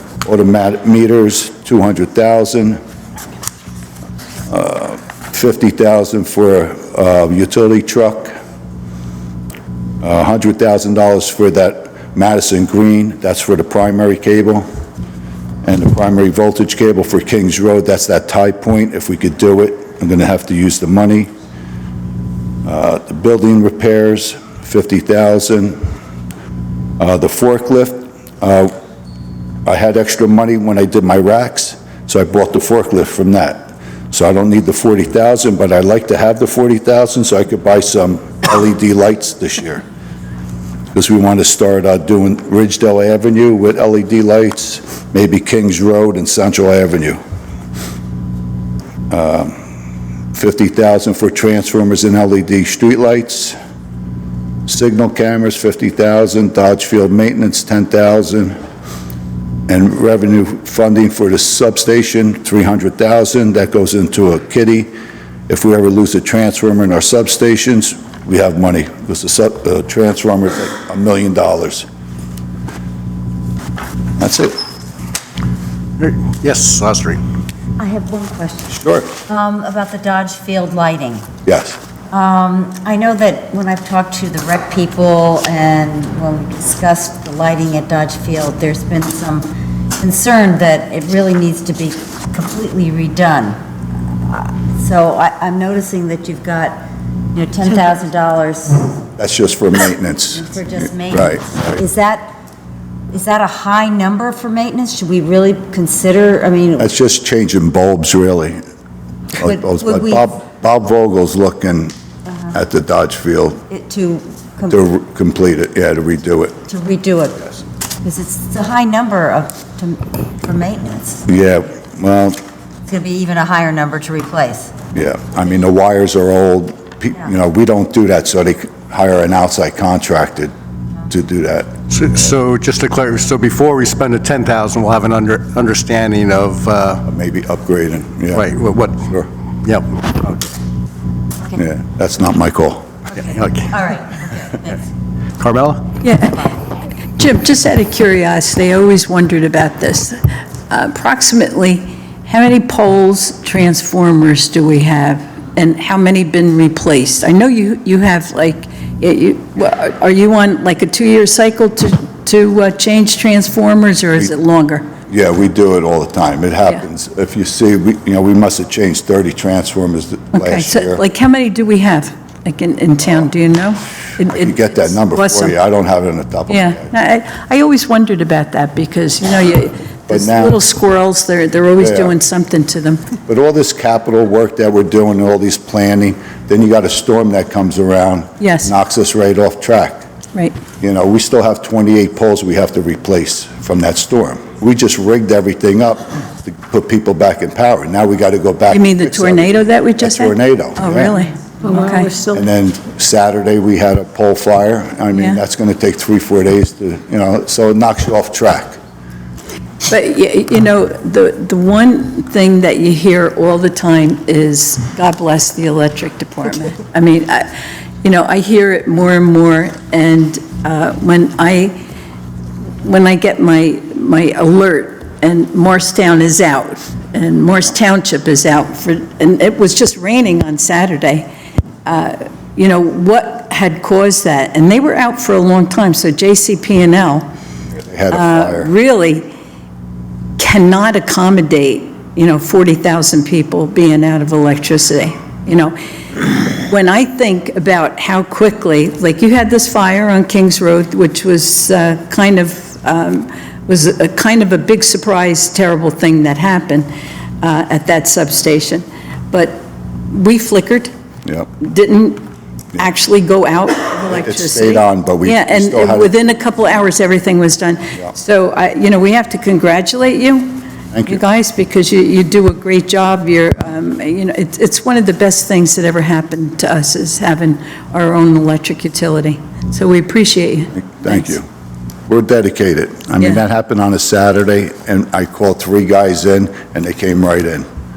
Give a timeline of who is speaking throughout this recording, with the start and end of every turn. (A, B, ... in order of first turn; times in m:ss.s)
0:00.2-0:02.8 A
0:04.5-0:08.3 A
0:10.0-0:14.6 A
0:15.6-0:21.3 A
0:22.6-0:25.8 A
0:27.0-0:28.7 A
0:29.7-0:39.8 A
0:40.9-0:47.2 A
0:49.1-0:49.6 A
0:50.3-0:53.6 A
0:54.7-0:58.6 A
0:59.7-1:04.9 A
1:05.5-1:11.9 A
1:14.2-1:14.6 A
1:16.0-1:17.2 B
1:17.8-1:21.3 C
1:18.7-1:19.1 A
1:21.4-1:21.8 A
1:22.1-1:33.6 C
1:34.1-1:39.0 C
1:39.2-1:40.5 A
1:40.3-1:42.3 C
1:41.1-1:41.8 A
1:43.1-1:46.9 C
1:46.8-1:48.6 A
1:49.3-1:51.9 A
1:49.4-1:50.2 C
1:52.5-1:53.6 A
1:53.7-1:54.8 C
1:54.7-1:56.6 A
1:56.7-2:01.3 C
2:01.3-2:02.4 A
2:02.8-2:04.7 C
2:04.9-2:10.5 A
2:11.1-2:11.8 A
2:11.9-2:17.1 B
2:17.0-2:18.5 A
2:18.3-2:19.1 B
2:19.6-2:20.5 B
2:21.5-2:22.9 A
2:23.1-2:24.9 C
2:23.2-2:23.8 B
2:25.4-2:26.0 B
2:26.0-2:26.5 D
2:27.2-2:44.9 D
2:45.1-2:51.0 A
2:50.3-2:55.6 D
2:54.3-2:56.9 A
2:56.5-3:03.0 D
3:00.1-3:00.6 A
3:01.8-3:02.2 A
3:03.3-3:10.0 A
3:08.4-3:08.7 D
3:10.8-3:21.1 A
3:18.7-3:22.2 D
3:22.2-3:28.8 A
3:25.1-3:25.4 D
3:29.9-3:37.5 D
3:38.0-3:41.8 D
3:42.8-3:51.3 D
3:51.8-3:57.3 D
3:57.7-3:58.7 A
3:58.1-3:59.3 D
4:00.4-4:16.9 D
4:17.4-4:20.9 D
4:21.6-4:41.1 D
4:24.1-4:26.1 A
4:30.9-4:31.2 A
4:40.8-4:41.4 A
4:42.1-4:47.7 A